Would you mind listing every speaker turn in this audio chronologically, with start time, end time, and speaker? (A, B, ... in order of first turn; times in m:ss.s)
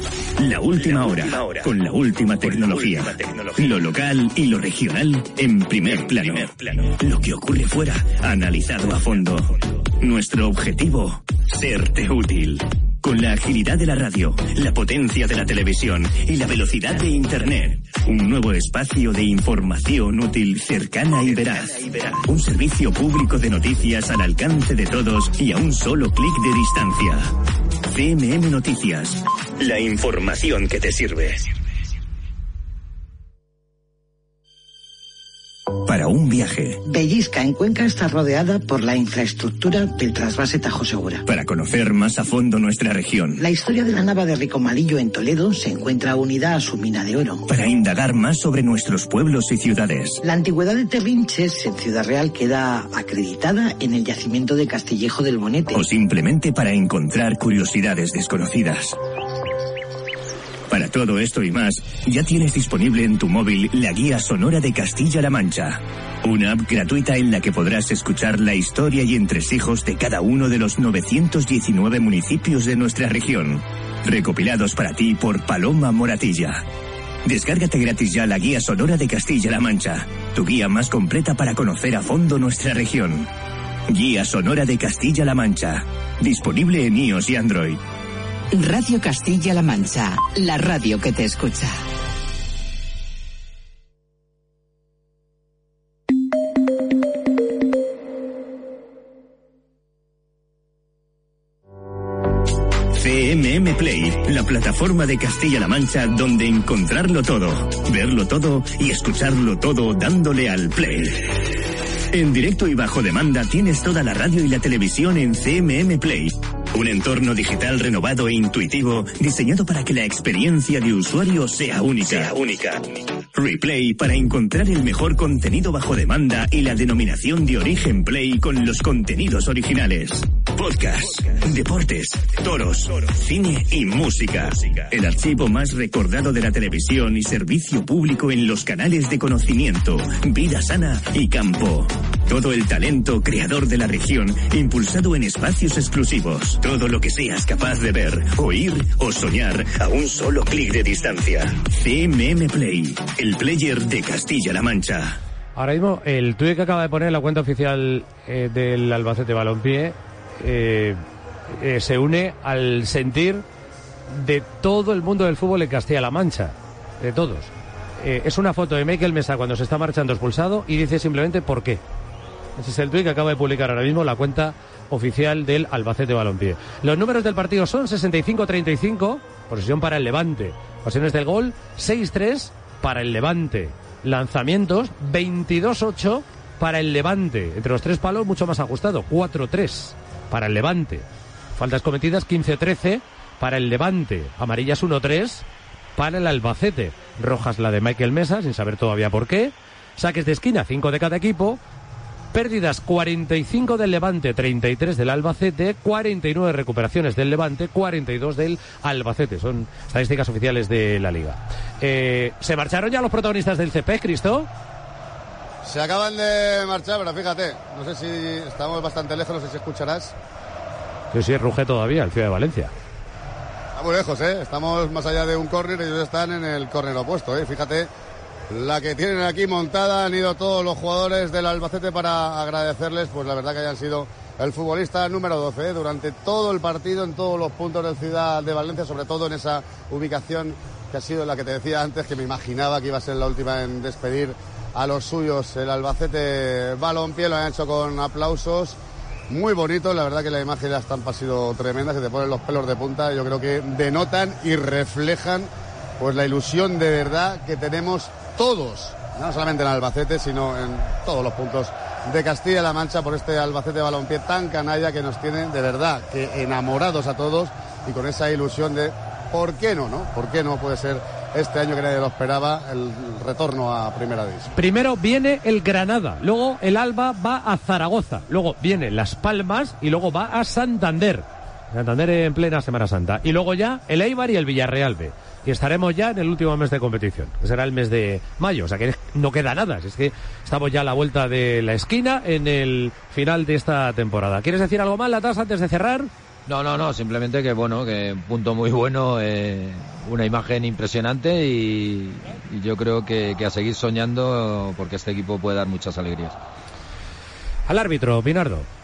0:00.4-0:27.3 A
0:27.9-0:31.4 A
0:35.8-0:36.8 A
0:36.8-0:41.2 B
0:41.3-0:43.4 A
0:43.4-0:47.4 B
0:47.5-0:50.2 A
0:50.2-0:55.9 B
0:55.7-0:59.0 A
1:00.7-1:16.6 A
1:17.2-1:23.3 A
1:23.9-1:27.8 A
1:28.5-1:31.8 C
1:42.9-1:51.3 A
1:52.1-2:02.8 A
2:03.4-2:35.2 A
2:35.6-2:43.4 D
2:44.1-2:51.8 D
2:52.6-3:15.4 D
3:16.0-3:21.6 D
3:22.3-3:34.5 D
3:35.6-3:40.1 E
3:41.1-3:42.7 D
3:43.8-3:47.9 E
3:48.5-4:08.8 E
4:09.3-4:34.5 E
4:34.6-4:56.1 D
4:56.5-5:06.4 F
5:07.7-5:08.7 D